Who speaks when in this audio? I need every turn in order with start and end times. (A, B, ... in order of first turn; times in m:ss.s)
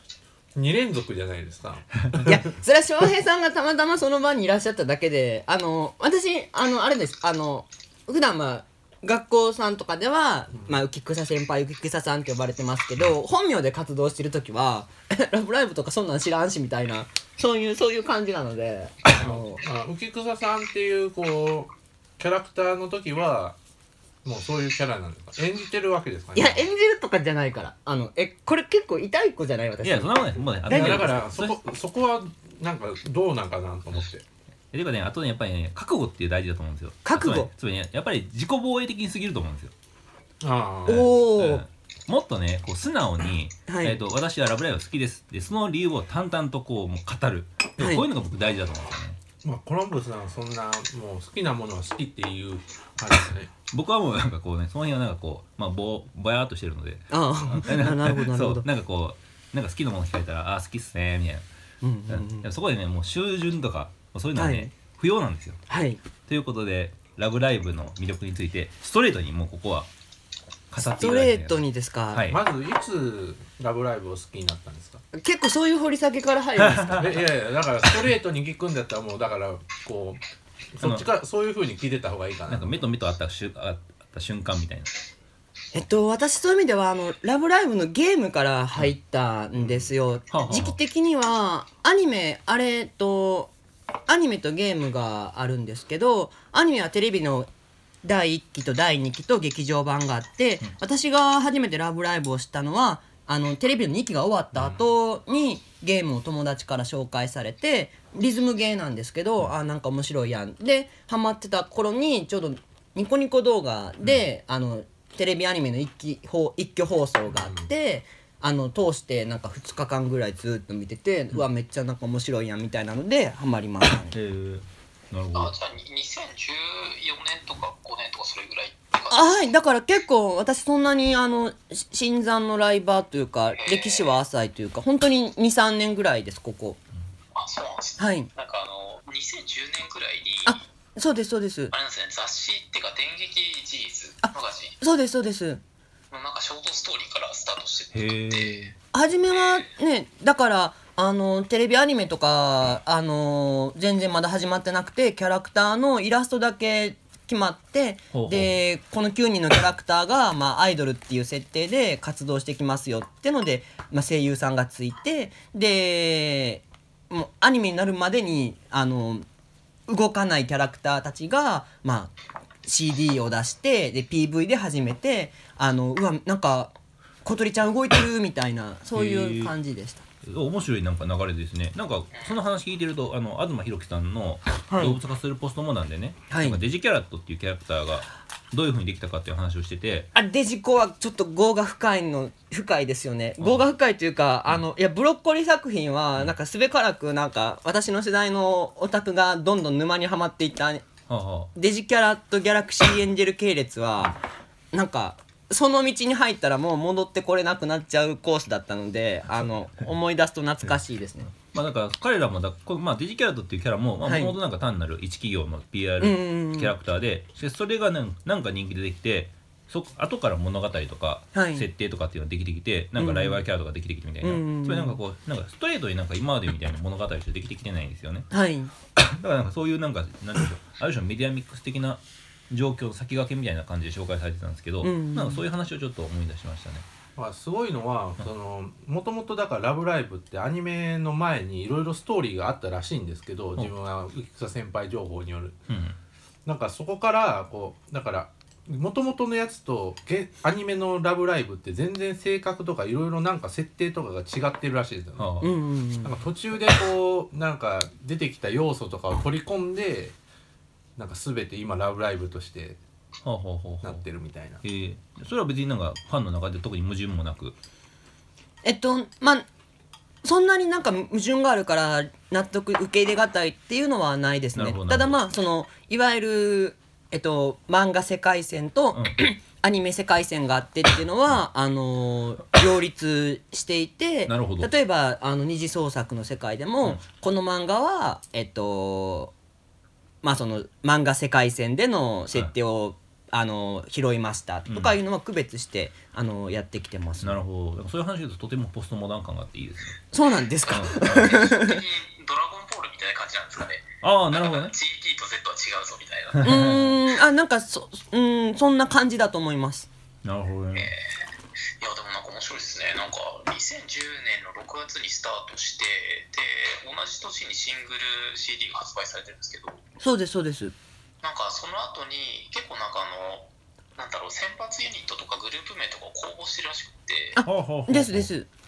0:00.6-0:02.5 A
0:02.2-0:19.6 B
0:19.1-0:23.6 A
0:24.2-0:26.7 A
0:26.3-0:31.2 B
0:29.8-0:31.6 C
0:30.7-0:34.2 A
0:34.7-0:39.7 C
0:37.0-0:37.5 B
0:40.4-0:41.1 A
0:40.9-0:41.6 B
0:40.9-0:49.2 C
0:43.7-0:44.0 B
0:47.8-0:48.1 B
0:49.4-0:53.5 A
0:53.7-1:01.4 C
0:57.1-0:58.7 B
1:01.8-1:02.5 B
1:02.1-1:05.6 C
1:04.4-1:04.7 B
1:05.7-1:06.0 B
1:06.3-1:09.9 C
1:10.7-1:12.4 C
1:10.8-1:12.3 B
1:12.3-1:15.0 A
1:15.1-1:17.2 B
1:16.6-1:17.1 C
1:16.9-1:20.2 A
1:20.7-1:22.8 A
1:20.8-1:21.1 C
1:22.5-1:25.0 C
1:25.7-1:33.5 B
1:30.3-1:30.8 C
1:34.1-1:37.5 B
1:38.0-2:04.2 B
1:57.4-1:57.7 A
2:04.1-2:05.5 C
2:05.3-2:09.5 D
2:09.1-2:16.8 B
2:13.5-2:14.2 D
2:17.4-2:20.6 D
2:18.0-2:18.3 B
2:20.5-2:21.7 B
2:21.7-2:24.8 D
2:24.2-2:25.6 B
2:26.1-2:28.7 D
2:27.9-2:28.7 C
2:28.9-2:49.3 B
2:29.4-2:29.6 D
2:38.1-2:38.5 C
2:49.9-2:52.1 B
2:52.6-2:56.7 B
2:57.2-3:00.0 B
2:58.9-2:59.5 C
3:00.2-3:10.1 C
3:04.7-3:05.0 B
3:06.3-3:06.6 B
3:10.2-3:20.8 B
3:21.1-3:21.5 C
3:21.6-3:31.3 B
3:31.5-3:48.3 C
3:34.0-3:34.4 B
3:36.0-3:36.8 B
3:41.3-3:41.7 B
3:43.0-3:43.4 B
3:44.2-3:45.0 B
3:48.3-3:48.7 B
3:49.0-3:56.9 C
3:54.8-3:55.5 B
3:57.2-4:05.6 A
4:05.7-4:06.0 C
4:06.5-4:15.4 A
4:15.2-4:15.5 C
4:15.4-4:16.2 B
4:16.0-4:20.2 A
4:21.0-4:22.8 A
4:23.2-4:24.0 C
4:23.8-4:24.6 A
4:24.6-4:27.6 C
4:28.6-4:29.5 B
4:30.2-4:49.3 B
4:34.6-4:35.2 C
4:38.9-4:39.2 C
4:44.3-4:44.7 C
4:50.2-4:57.4 B
4:54.7-4:55.0 C
4:57.2-5:00.0 C
5:00.1-5:01.8 B
5:00.7-5:06.8 D
5:00.7-5:01.4 C
5:04.0-5:04.7 C
5:06.4-5:06.8 C
5:06.4-5:09.9 B
5:10.2-5:10.9 C
5:10.7-5:11.1 D
5:11.8-5:19.8 D
5:20.0-5:20.8 B
5:21.2-5:27.4 D
5:27.4-5:28.5 B
5:27.4-5:28.3 C